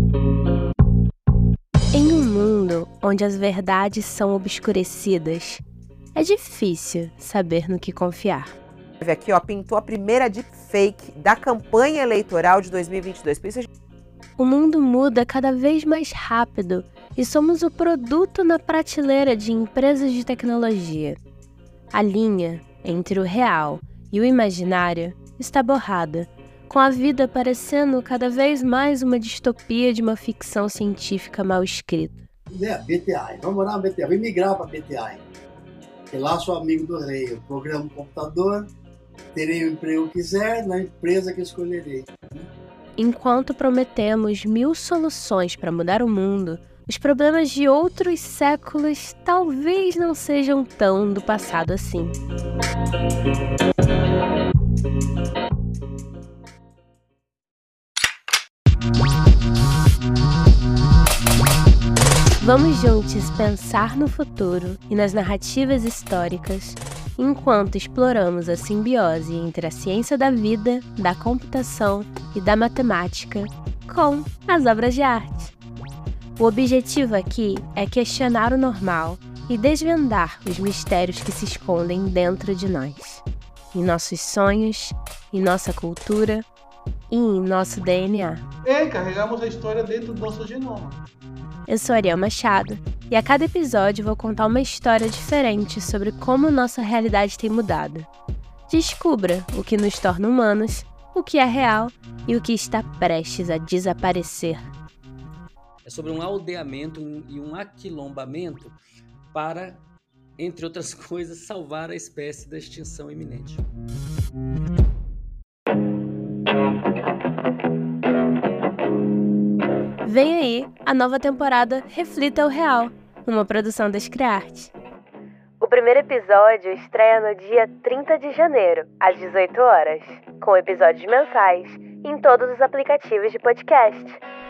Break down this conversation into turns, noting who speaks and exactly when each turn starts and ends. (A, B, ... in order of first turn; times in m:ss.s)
0:01.9-0:05.6 A
0:06.1-0:08.6 A
0:09.0-0:13.7 B
0:14.4-0:21.2 A
0:21.9-0:32.2 A
0:32.5-0:35.2 C
0:36.1-0:38.7 C
0:39.3-0:42.4 C
0:43.0-0:52.2 A
1:02.4-1:15.5 A
1:16.4-1:26.4 A
1:27.1-1:28.4 A
1:28.6-1:31.0 D
1:31.7-1:38.1 A
1:38.7-1:44.7 A
1:45.8-1:48.8 E
1:49.3-1:49.8 E
1:50.4-1:53.7 E
2:00.0-2:04.7 A
2:05.6-2:14.2 A